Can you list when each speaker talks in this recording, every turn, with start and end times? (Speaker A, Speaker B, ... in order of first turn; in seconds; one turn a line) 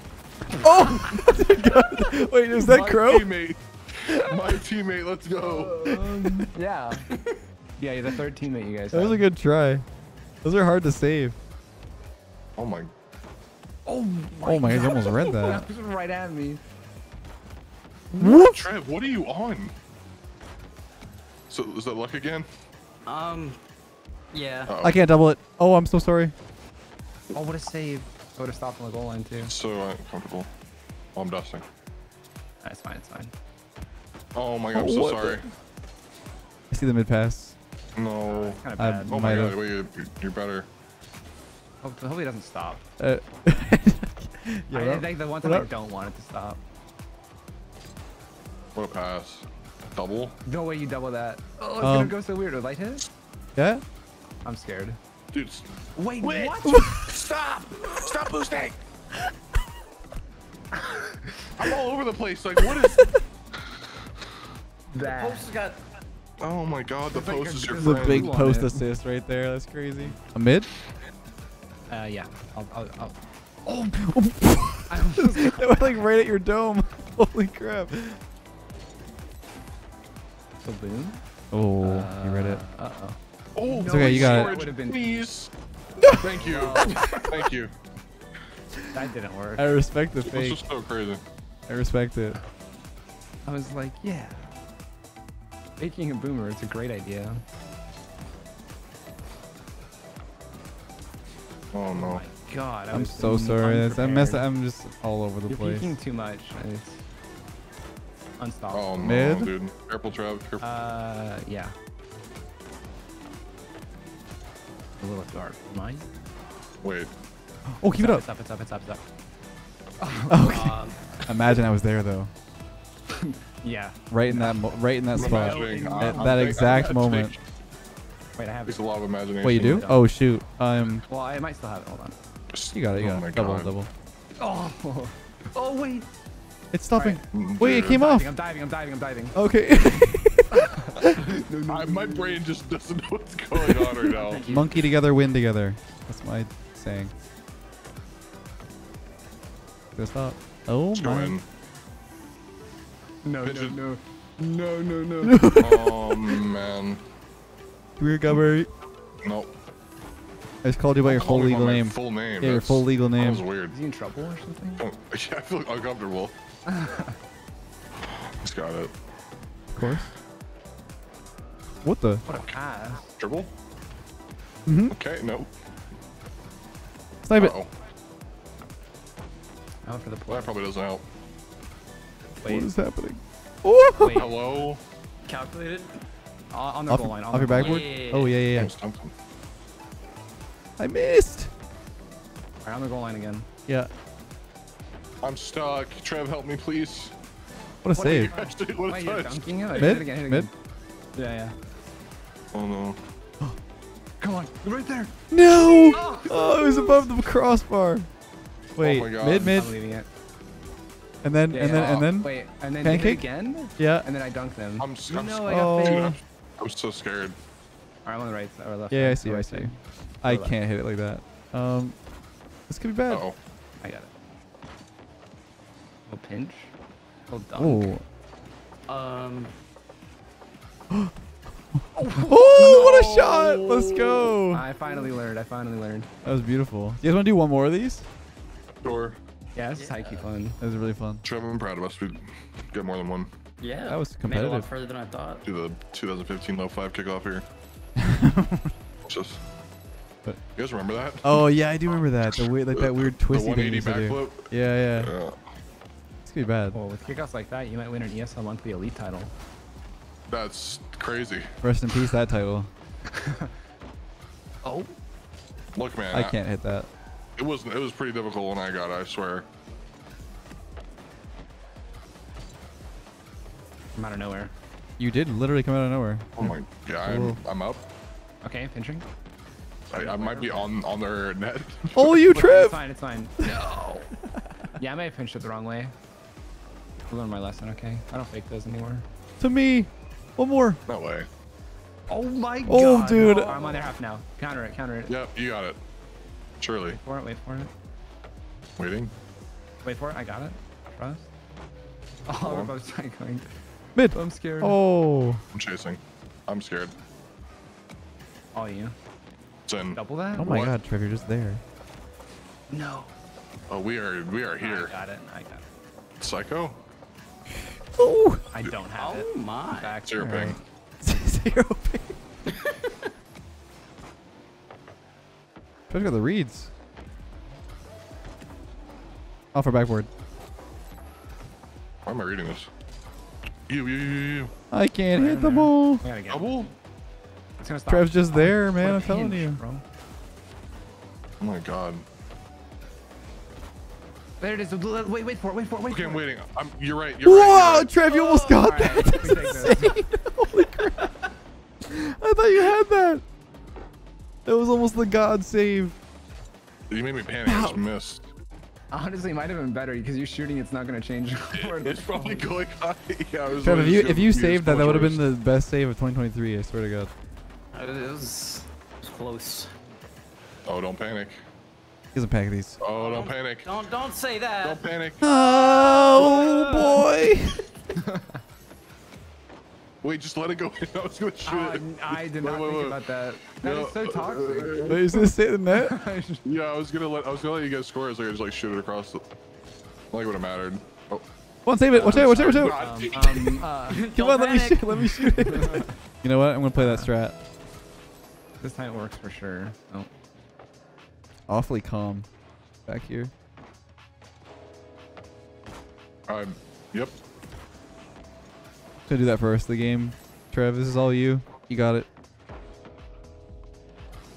Speaker A: 0.6-3.3
Speaker B: 0.7-1.4
Speaker C: 2.5-5.9
Speaker B: 5.4-7.1
Speaker B: 7.8-9.2
Speaker A: 8.9-9.8
Speaker A: 10.4-11.3
Speaker C: 12.6-12.9
Speaker B: 13.8-16.6
Speaker A: 14.4-15.6
Speaker C: 18.1-19.7
Speaker A: 18.2-18.6
Speaker C: 21.5-22.5
Speaker D: 23.1-23.6
Speaker D: 24.3-24.7
Speaker C: 24.7-25.0
Speaker A: 24.8-26.3
Speaker B: 27.3-29.5
Speaker C: 29.4-30.5
Speaker C: 31.1-31.6
Speaker B: 32.6-33.3
Speaker C: 34.3-35.4
Speaker A: 34.7-35.5
Speaker A: 36.7-37.6
Speaker C: 38.0-40.7
Speaker B: 38.3-39.5
Speaker A: 38.8-39.6
Speaker B: 41.8-42.9
Speaker A: 43.0-45.7
Speaker B: 44.7-46.6
Speaker C: 48.8-50.4
Speaker B: 50.5-53.1
Speaker A: 51.8-52.1
Speaker A: 53.6-53.8
Speaker B: 54.4-55.0
Speaker C: 55.3-55.7
Speaker B: 56.0-57.0
Speaker C: 56.2-58.8
Speaker A: 56.7-57.1
Speaker B: 60.7-61.6
Speaker C: 61.6-63.1
Speaker B: 64.9-65.5
Speaker D: 65.0-65.8
Speaker C: 66.4-68.4
Speaker B: 67.1-68.9
Speaker A: 67.8-70.7
Speaker B: 71.9-73.2
Speaker A: 73.9-78.2
Speaker B: 74.9-76.0
Speaker B: 80.6-81.2
Speaker A: 81.5-82.6
Speaker B: 81.8-85.3
Speaker C: 83.5-85.5
Speaker A: 83.9-84.6
Speaker C: 86.1-87.7
Speaker B: 86.3-87.3
Speaker B: 88.9-89.8
Speaker A: 89.6-90.7
Speaker C: 90.2-91.2
Speaker A: 91.7-92.4
Speaker B: 93.5-94.5
Speaker B: 95.8-97.4
Speaker C: 101.7-102.2
Speaker B: 101.9-104.4
Speaker A: 102.9-105.9
Speaker B: 105.5-107.0
Speaker B: 108.4-109.2
Speaker C: 108.7-110.6
Speaker A: 109.0-109.5
Speaker B: 110.6-111.7
Speaker B: 115.0-116.1
Speaker C: 116.8-117.1
Speaker A: 117.8-118.2
Speaker B: 117.9-119.0
Speaker B: 120.0-120.7
Speaker A: 120.3-122.3
Speaker D: 120.4-121.0
Speaker B: 123.1-126.7
Speaker A: 124.1-127.3
Speaker C: 125.2-127.4
Speaker B: 128.4-128.8
Speaker C: 128.7-129.9
Speaker A: 129.4-131.1
Speaker B: 129.5-130.1
Speaker B: 131.1-132.2
Speaker C: 132.5-133.7
Speaker A: 132.7-133.9
Speaker B: 134.4-136.1
Speaker A: 136.7-138.3
Speaker B: 136.9-137.2
Speaker C: 137.3-138.0
Speaker B: 137.9-139.4
Speaker A: 139.3-141.2
Speaker B: 140.5-142.4
Speaker C: 141.7-144.8
Speaker B: 143.8-144.9
Speaker A: 144.5-147.1
Speaker A: 150.0-151.4
Speaker C: 150.9-151.4
Speaker B: 153.2-155.4
Speaker C: 153.4-153.8
Speaker A: 155.2-156.3
Speaker C: 155.6-157.0
Speaker A: 158.0-158.7
Speaker C: 159.2-159.5
Speaker A: 160.6-163.5
Speaker C: 161.0-163.7
Speaker B: 163.7-164.8
Speaker C: 164.8-166.3
Speaker B: 166.7-167.2
Speaker C: 168.0-168.9
Speaker A: 169.7-170.1
Speaker A: 171.8-172.2
Speaker B: 172.3-173.1
Speaker C: 172.3-172.6
Speaker C: 173.2-173.5
Speaker A: 174.7-175.0
Speaker C: 174.9-175.5
Speaker A: 177.2-177.5
Speaker C: 177.4-177.7
Speaker B: 179.8-180.5
Speaker C: 180.3-181.0
Speaker B: 182.4-182.7
Speaker A: 182.4-184.3
Speaker B: 184.0-184.5
Speaker C: 184.1-184.8
Speaker D: 185.2-186.0
Speaker B: 186.5-187.9
Speaker A: 186.9-188.7
Speaker D: 187.5-188.3
Speaker C: 188.5-189.1
Speaker A: 190.8-191.5
Speaker B: 192.6-193.5
Speaker C: 195.2-197.1
Speaker A: 197.8-198.3
Speaker B: 198.0-200.5
Speaker C: 198.0-199.9
Speaker A: 199.8-200.5
Speaker B: 201.2-201.6
Speaker C: 202.5-203.0
Speaker B: 204.2-207.1
Speaker A: 205.3-208.1
Speaker A: 208.8-209.8
Speaker C: 208.8-209.6
Speaker B: 209.4-210.1
Speaker A: 211.2-214.1
Speaker B: 211.5-216.2
Speaker C: 211.8-212.0
Speaker C: 214.8-217.4
Speaker A: 215.5-216.2
Speaker B: 218.1-220.5
Speaker A: 218.9-222.0
Speaker A: 222.7-223.2
Speaker C: 223.1-223.4
Speaker B: 223.8-224.1
Speaker B: 226.1-226.7
Speaker B: 227.3-227.9
Speaker A: 227.6-228.0
Speaker D: 228.9-229.5
Speaker A: 231.8-234.7
Speaker B: 232.0-232.7
Speaker C: 232.5-234.4
Speaker B: 234.5-236.1
Speaker A: 236.2-238.1
Speaker C: 238.8-239.2
Speaker B: 239.6-240.6
Speaker D: 239.7-240.3
Speaker A: 240.6-241.2
Speaker C: 241.2-243.3
Speaker D: 243.6-245.5
Speaker A: 243.9-244.7
Speaker C: 245.4-247.4
Speaker A: 248.0-248.7
Speaker C: 249.1-249.4
Speaker C: 250.6-255.4
Speaker A: 251.2-255.1
Speaker A: 256.3-256.8
Speaker B: 256.7-259.3
Speaker C: 260.3-261.5
Speaker A: 261.6-262.7
Speaker B: 263.1-263.5
Speaker B: 264.6-264.9
Speaker C: 265.8-266.4
Speaker A: 266.1-266.9
Speaker C: 267.4-269.5
Speaker B: 273.9-274.5
Speaker A: 275.0-277.4
Speaker C: 276.4-277.9
Speaker B: 278.4-279.1
Speaker B: 279.9-280.7
Speaker C: 279.9-282.4
Speaker A: 281.9-282.8
Speaker B: 282.3-284.1
Speaker B: 284.8-285.9
Speaker B: 287.1-289.1
Speaker A: 289.4-290.8
Speaker C: 290.9-291.3
Speaker B: 292.1-295.1
Speaker A: 292.6-293.7
Speaker C: 295.1-295.8
Speaker C: 296.6-297.0
Speaker B: 296.9-297.7
Speaker C: 298.8-299.1
Speaker B: 299.8-301.3
Speaker B: 302.3-303.5
Speaker C: 302.4-302.7
Speaker A: 303.9-305.4
Speaker B: 304.1-304.8
Speaker C: 305.5-306.9
Speaker B: 308.5-308.9
Speaker C: 309.7-310.7
Speaker B: 310.0-310.6
Speaker A: 310.4-311.6
Speaker B: 312.7-313.1
Speaker C: 313.7-314.9
Speaker B: 314.6-315.7
Speaker C: 316.2-316.8
Speaker A: 317.9-318.4
Speaker B: 318.5-320.5
Speaker D: 318.9-319.9
Speaker C: 320.0-320.6
Speaker A: 320.2-322.2
Speaker D: 322.5-322.9
Speaker A: 325.9-326.7
Speaker A: 329.5-330.1
Speaker C: 332.1-332.7
Speaker C: 333.7-334.5
Speaker A: 334.7-336.1
Speaker B: 335.1-336.7
Speaker C: 336.3-336.7
Speaker B: 337.6-339.8
Speaker A: 337.9-339.6
Speaker C: 341.4-342.1
Speaker B: 344.4-346.3
Speaker C: 345.9-347.9
Speaker A: 347.2-351.1
Speaker B: 348.1-349.9
Speaker A: 351.9-353.2
Speaker A: 354.5-356.0
Speaker C: 356.9-358.3
Speaker A: 357.4-357.8
Speaker B: 358.9-362.5
Speaker C: 361.6-365.2
Speaker A: 363.6-367.1
Speaker D: 367.7-369.7
Speaker C: 370.7-371.4
Speaker A: 372.1-372.8
Speaker C: 372.8-373.7
Speaker D: 372.9-377.1
Speaker C: 374.6-375.2
Speaker A: 375.2-377.6
Speaker B: 377.9-378.4
Speaker C: 380.0-383.0
Speaker B: 381.5-385.0
Speaker C: 383.6-385.3
Speaker A: 384.9-386.0
Speaker B: 385.7-386.4
Speaker C: 386.4-389.2
Speaker C: 390.1-391.3
Speaker A: 391.7-392.8
Speaker B: 391.9-394.2
Speaker C: 391.9-393.7
Speaker D: 393.3-395.0
Speaker A: 394.0-397.3
Speaker B: 394.7-396.0
Speaker B: 396.7-397.1
Speaker B: 398.6-400.1
Speaker A: 401.5-402.3
Speaker A: 402.9-403.3
Speaker C: 406.3-407.2
Speaker A: 409.1-412.1